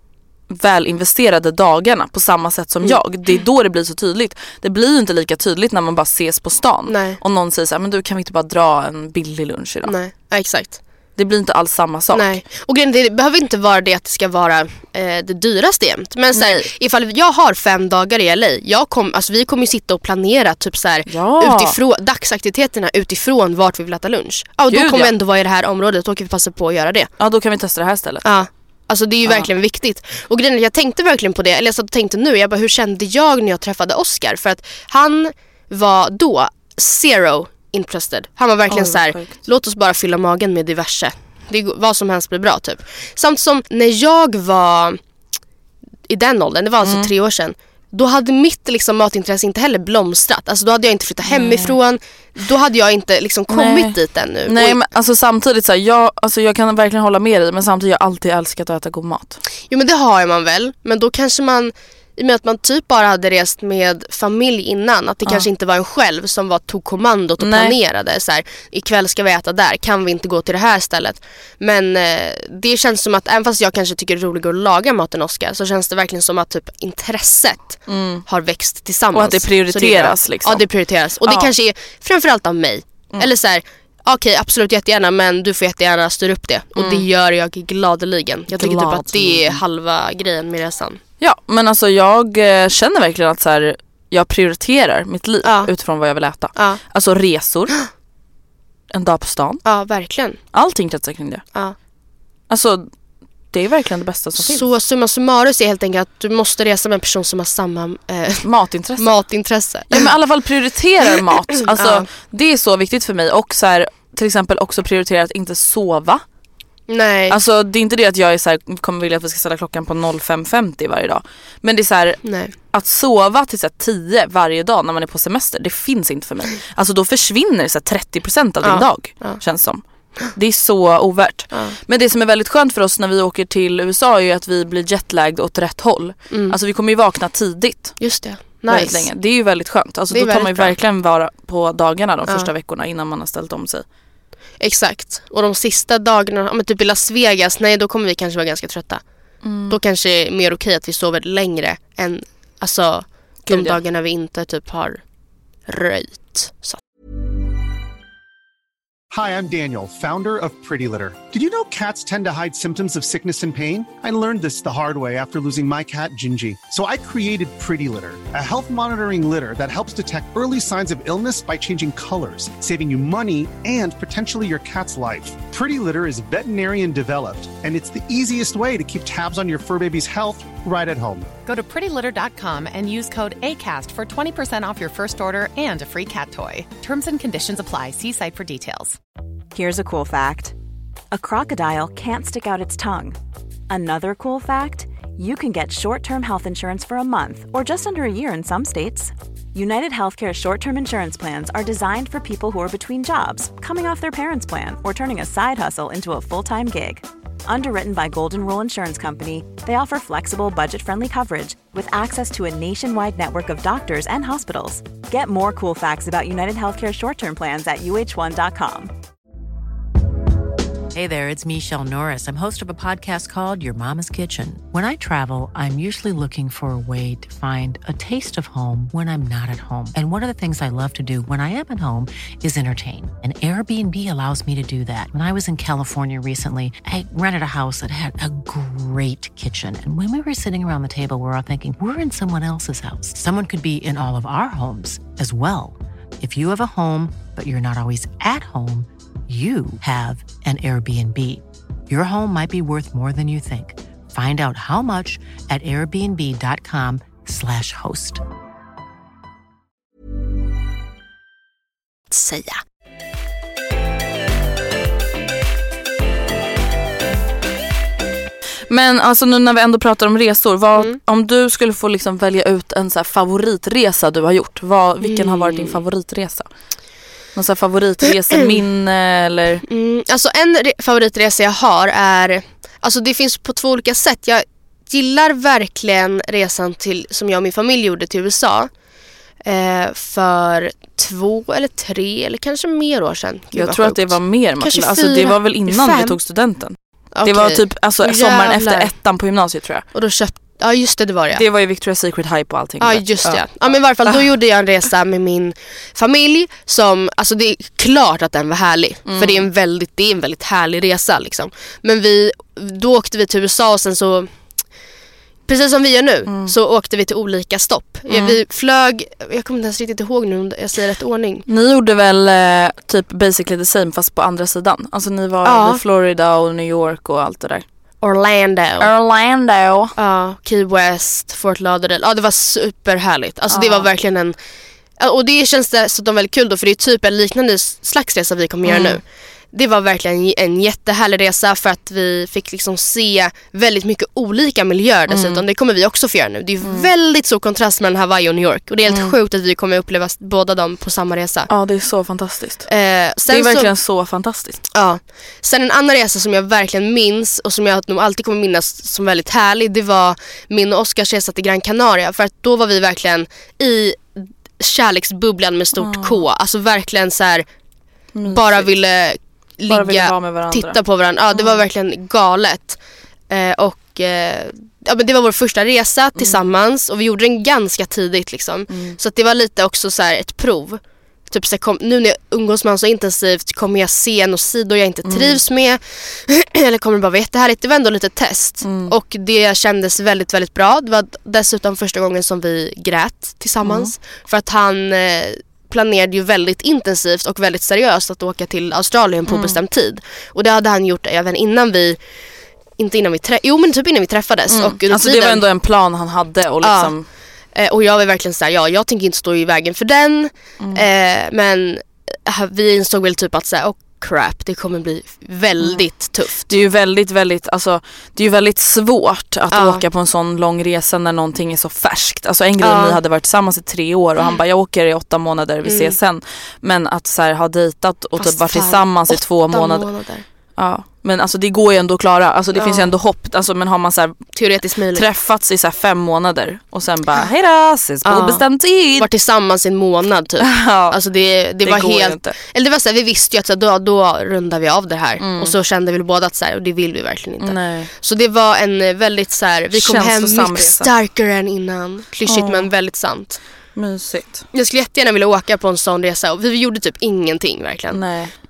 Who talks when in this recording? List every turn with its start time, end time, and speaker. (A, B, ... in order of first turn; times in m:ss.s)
0:00.5-0:10.0 A
0:06.9-0:07.2 B
0:09.9-0:10.8 B
0:11.2-0:12.4 A
0:12.1-0:27.1 B
0:16.3-0:16.7 A
0:21.1-0:21.8 A
0:24.7-0:25.1 A
0:27.2-0:28.2 A
0:28.2-0:45.0 B
0:29.2-0:29.5 A
0:38.7-0:39.4 A
0:46.1-0:54.8 B
0:46.8-0:47.1 A
0:51.2-0:51.8 A
0:53.5-0:54.0 A
0:54.5-0:59.4 A
0:59.7-1:31.0 B
1:07.4-1:07.8 A
1:17.9-1:18.2 A
1:19.1-1:20.7 A
1:21.2-1:21.5 A
1:26.8-1:27.0 A
1:28.5-1:29.6 A
1:31.2-1:37.8 A
1:35.4-1:35.7 B
1:38.9-1:39.6 A
1:39.7-1:40.4 B
1:40.5-1:41.4 A
1:42.5-1:42.9 A
1:43.5-1:44.6 A
1:44.4-1:48.4 B
1:48.4-1:49.1 A
1:49.0-1:50.1 B
1:49.9-1:56.2 A
1:51.7-1:52.1 B
1:56.9-1:57.4 B
1:57.3-2:18.0 A
2:02.2-2:02.5 B
2:08.6-2:09.4 B
2:16.3-2:16.6 B
2:18.0-2:19.1 B
2:18.7-2:23.8 A
2:20.1-2:20.8 B
2:24.6-2:29.0 B
2:29.4-2:29.8 A
2:29.7-2:35.0 B
2:33.5-2:33.8 A
2:35.7-2:36.8 B
2:39.1-3:01.3 C
3:01.4-3:09.0 D
3:09.5-3:10.6 E
3:11.1-3:13.2 E
3:13.7-3:38.9 E
3:40.9-4:18.2 F
4:22.1-4:22.6 B
4:28.7-4:36.5 A
4:35.0-4:35.7 B
4:37.4-4:39.6 A
4:39.7-4:48.7 B
4:49.4-4:56.2 B
4:53.5-4:59.8 A
4:57.2-4:58.9 B
4:59.9-5:01.4 B
5:01.3-5:04.3 A
5:02.8-5:14.3 B
5:09.1-5:09.5 A
5:15.5-5:21.4 B
5:16.3-5:16.5 A
5:18.1-5:18.4 A
5:21.5-5:27.6 A
5:25.4-5:25.8 B
5:28.0-5:28.9 B
5:28.8-5:29.9 A
5:30.0-5:34.4 B
5:33.5-5:33.9 A
5:35.0-5:51.5 B
5:38.6-5:39.0 A
5:45.1-5:45.4 A
5:46.6-5:46.9 A
5:48.9-5:49.2 A
5:51.5-5:52.7 A
5:52.7-5:53.7 B
5:53.3-5:54.6 A
5:54.7-6:07.4 B
6:05.8-6:06.2 A
6:08.2-6:08.7 A
6:08.3-6:12.8 B
6:09.7-6:10.8 A
6:11.3-6:11.6 A
6:13.3-6:42.0 B
6:16.2-6:16.5 A
6:18.7-6:19.0 A
6:25.1-6:25.4 A
6:28.6-6:28.9 A
6:33.6-6:33.9 A
6:39.3-6:39.6 A
6:42.8-6:45.4 B
6:44.5-6:47.1 A
6:46.6-6:46.9 B
6:47.6-6:56.5 B
6:56.5-7:09.9 A
6:59.5-6:59.8 B
7:02.6-7:03.0 B
7:05.7-7:06.0 B
7:08.2-7:10.2 B
7:10.6-7:14.2 A
7:12.6-7:12.9 B
7:14.4-7:15.0 B
7:14.9-7:19.1 A
7:18.1-7:18.4 B
7:19.0-7:33.4 B
7:20.4-7:21.0 A
7:21.6-7:22.3 A
7:25.2-7:25.6 A
7:27.4-7:27.9 A
7:29.7-7:30.9 A
7:32.3-7:32.7 A
7:33.8-7:34.5 A
7:34.5-7:38.0 B
7:37.9-7:38.3 A